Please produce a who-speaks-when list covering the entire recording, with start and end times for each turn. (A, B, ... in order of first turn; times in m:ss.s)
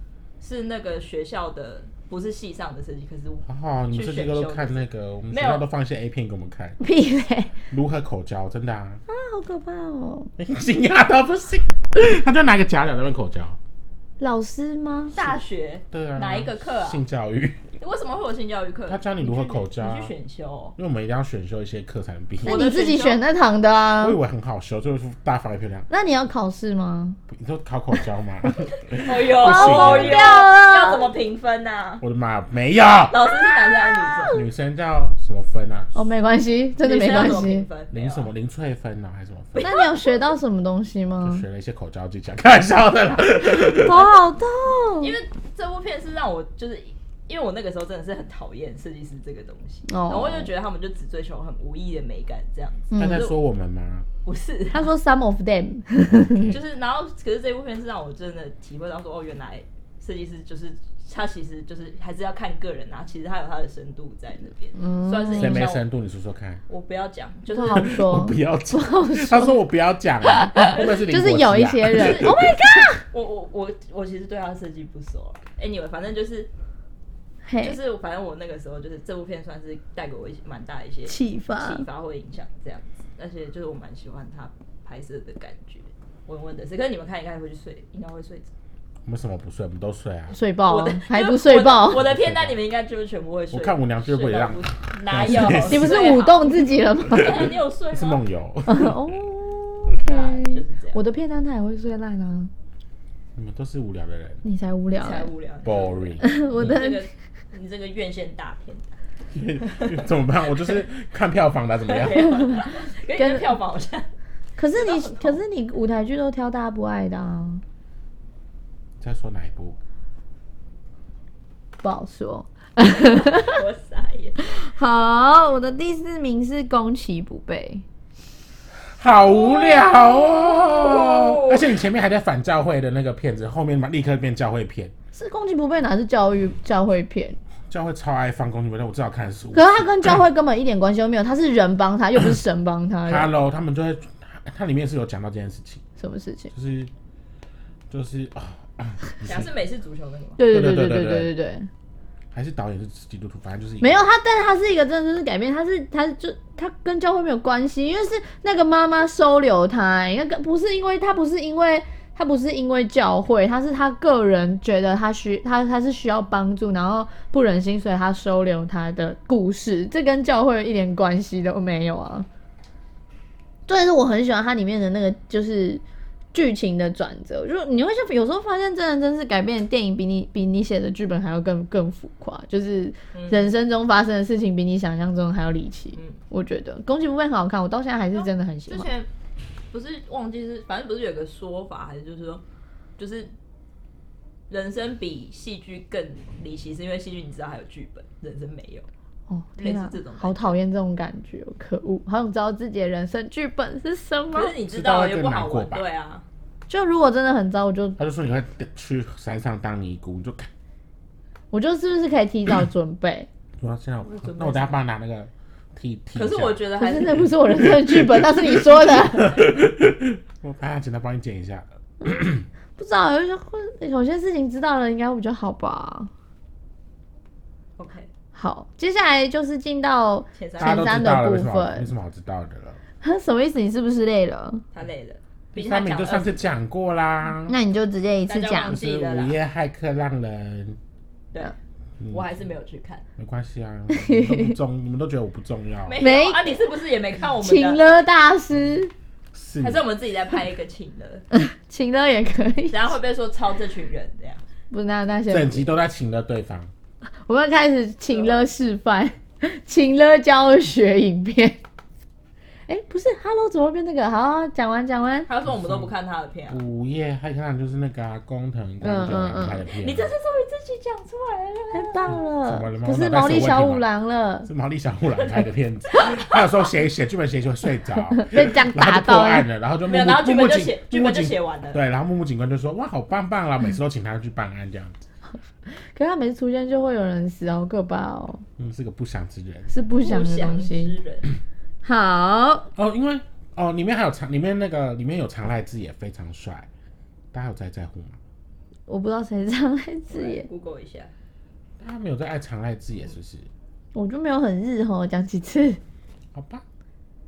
0:00.4-0:05.7 A
0:03.5-0:06.8 B
0:06.8-0:07.6 C
0:07.7-0:09.0 B
0:09.1-0:10.3 C
0:10.4-0:13.6 B
0:14.2-0:15.4 C
0:15.1-0:17.0 A
0:15.9-0:17.7 B
0:17.8-0:20.8 A
0:18.9-0:20.1 B
0:20.8-0:22.7 B
0:22.4-0:24.2 C
0:22.4-0:23.2 A
0:24.0-0:25.9 B
0:25.9-0:27.2 C
0:27.3-0:30.3 B
0:29.0-0:32.0 A
0:29.4-0:31.1 C
0:32.0-0:33.2 B
0:33.1-0:34.4 A
0:33.5-0:34.5 C
0:34.3-0:35.9 B
0:35.9-0:37.7 C
0:36.8-0:38.3 A
0:37.9-0:39.9 B
0:39.6-0:40.4 A
0:39.6-0:41.5 C
0:41.2-0:44.1 B
0:43.6-0:45.2 C
0:43.9-0:44.3 A
0:45.0-0:53.4 A
0:49.9-0:50.5 C
0:52.9-0:53.3 C
0:52.9-0:54.1 B
0:54.2-0:54.9 A
0:54.7-0:56.6 C
0:56.1-0:56.6 B
0:56.5-1:05.8 A
1:04.8-1:05.6 C
1:05.3-1:06.6 B
1:06.7-1:07.8 A
1:07.5-1:09.6 C
1:07.7-1:12.4 B
1:10.4-1:13.1 C
1:11.9-1:16.5 A
1:17.4-1:17.8 C
1:17.6-1:28.5 A
1:21.1-1:21.9 C
1:29.1-1:30.4 B
1:30.3-1:32.0 C
1:30.7-1:38.2 A
1:31.9-1:32.6 B
1:33.5-1:36.1 B
1:35.6-1:37.3 C
1:37.1-1:39.2 B
1:38.7-1:42.5 C
1:40.0-1:41.0 A
1:43.4-1:44.4 B
1:44.4-1:45.3 C
1:44.9-1:48.9 A
1:45.6-1:46.8 B
1:46.2-1:47.0 C
1:49.3-1:52.6 B
1:49.6-1:50.0 A
1:51.9-1:54.1 A
1:53.2-1:53.6 C
1:54.6-1:57.6 C
1:54.7-1:55.4 A
1:59.0-1:59.8 B
2:01.8-2:03.6 C
2:03.0-2:04.6 A
2:04.4-2:07.8 C
2:08.8-2:14.9 B
2:09.2-2:09.7 A
2:09.6-2:10.5 C
2:10.4-2:11.8 A
2:15.1-2:17.4 C
2:17.7-2:20.2 B
2:19.5-2:23.3 C
2:23.0-2:25.8 B
2:26.0-2:26.5 C
2:26.5-2:26.9 B
2:27.9-2:29.5 B
2:29.2-2:30.5 A
2:30.4-2:31.7 C
2:30.5-2:31.3 B
2:32.3-2:34.0 B
2:33.8-2:52.3 C
2:53.7-2:55.8 C
2:56.3-3:08.9 C
3:03.1-3:03.6 A
3:05.9-3:06.2 A
3:08.1-3:09.1 A
3:09.7-3:12.4 A
3:13.0-3:13.3 A
3:14.5-3:18.9 A
3:19.3-3:24.6 C
3:19.6-3:20.6 A
3:24.3-3:26.2 A
3:24.7-3:25.9 B
3:26.7-3:28.0 C
3:28.0-3:30.5 B
3:31.5-3:33.3 C
3:33.6-3:42.5 B
3:34.0-3:34.8 A
3:36.2-3:37.4 A
3:36.8-3:39.4 C
3:42.8-3:46.1 C
3:47.8-3:48.1 A
3:48.3-3:51.9 C
3:50.3-3:50.9 A
3:50.6-3:52.8 B
3:53.0-3:54.6 C
3:54.7-3:56.6 A
3:55.5-3:57.6 B
3:57.5-3:58.8 C
3:58.3-3:59.4 A
3:58.6-4:00.8 B
4:02.0-4:02.3 B
4:02.1-4:03.0 A
4:03.2-4:06.0 B
4:03.9-4:04.6 C
4:05.9-4:07.9 A
4:06.0-4:06.7 C
4:07.4-4:08.9 C
4:09.3-4:09.8 B
4:09.6-4:11.2 A
4:11.3-4:13.0 C
4:12.7-4:14.4 A
4:14.7-4:15.7 C
4:15.3-4:16.7 B
4:17.3-4:21.6 C
4:18.1-4:18.5 A
4:22.7-4:25.3 C
4:25.3-4:26.6 A
4:25.4-4:25.9 B
4:26.5-4:30.1 B
4:28.8-4:29.7 C
4:29.7-4:32.2 A
4:31.7-4:34.5 C
4:32.1-4:33.9 B
4:34.4-4:45.0 B
4:35.2-4:36.6 A
4:38.2-4:39.5 C
4:39.8-4:41.8 A
4:45.7-4:48.4 C
4:48.6-4:49.8 B
4:49.7-4:51.0 C
4:50.0-4:51.3 A
4:51.8-4:52.7 C
4:52.8-4:56.7 B
4:57.3-4:58.2 B
4:58.9-5:00.5 C
5:00.1-5:01.1 A
5:01.8-5:03.5 B
5:03.9-5:05.8 C
5:06.3-5:06.6 B